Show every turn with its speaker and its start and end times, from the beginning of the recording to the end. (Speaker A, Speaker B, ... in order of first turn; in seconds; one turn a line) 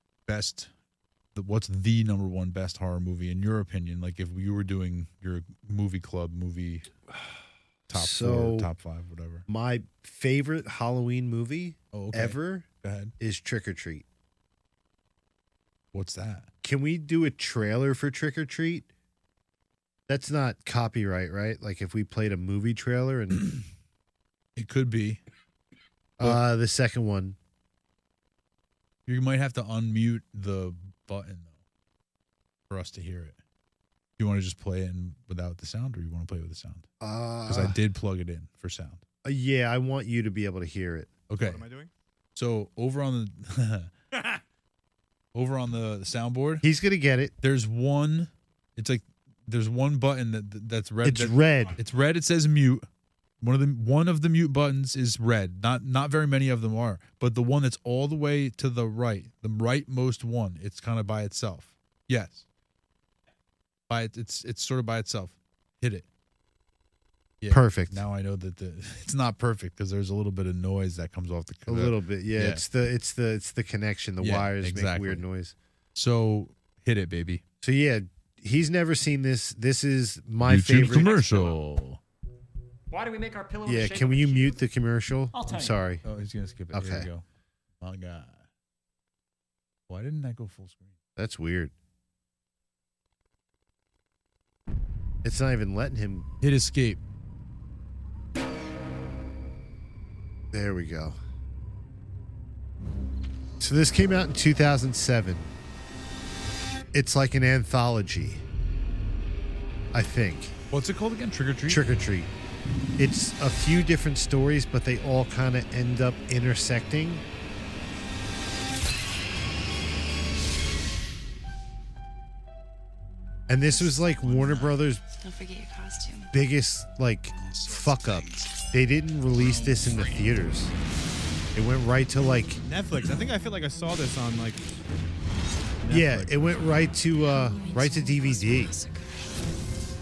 Speaker A: 0.3-0.7
Speaker A: 1.3-6.9
Speaker A: 7.9-9.5
Speaker B: 7.9-8.7
Speaker B: 9.5-12.7
Speaker A: 11.9-13.1
Speaker B: 13.2-14.1
Speaker A: 15.9-16.5
Speaker B: 16.6-18.9
Speaker B: 20.1-23.5
Speaker A: 24.6-25.2
Speaker B: 26.2-27.4
Speaker A: 29.1-31.5
Speaker A: 32.7-33.4
Speaker A: 34.2-36.9
Speaker B: 37.0-37.8
Speaker A: 37.5-39.0
Speaker B: 39.2-41.1
Speaker A: 41.3-41.6
Speaker C: 41.4-41.9
Speaker A: 42.4-43.9
Speaker C: 44.1-44.4
Speaker A: 45.3-46.6
Speaker B: 46.6-47.3
Speaker A: 47.4-52.9
Speaker B: 51.0-51.8
Speaker A: 53.4-62.5
Speaker A: 63.9-66.1
Speaker A: 67.4-72.6
Speaker B: 67.5-68.0
Speaker B: 71.7-75.5
Speaker A: 74.2-75.2
Speaker A: 76.0-77.4
Speaker B: 77.6-81.2
Speaker A: 80.4-82.0
Speaker D: 81.1-81.6
Speaker D: 82.9-84.6
Speaker B: 83.7-86.0
Speaker D: 85.3-85.8
Speaker A: 86.0-87.2
Speaker B: 86.7-87.1
Speaker A: 87.8-88.5
Speaker A: 89.9-90.9
Speaker B: 91.2-91.7
Speaker B: 95.2-96.3
Speaker A: 96.4-97.0
Speaker B: 100.5-101.2
Speaker B: 103.6-105.5
Speaker B: 106.9-108.4
Speaker B: 109.9-110.6
Speaker A: 110.7-111.9
Speaker B: 111.7-112.3
Speaker B: 113.0-117.2
Speaker B: 123.5-125.0
Speaker E: 123.6-126.3
Speaker B: 126.3-130.7
Speaker A: 127.5-128.5
Speaker B: 131.6-132.6
Speaker C: 132.6-134.7
Speaker C: 135.8-136.6
Speaker B: 135.9-138.8
Speaker E: 137.1-139.5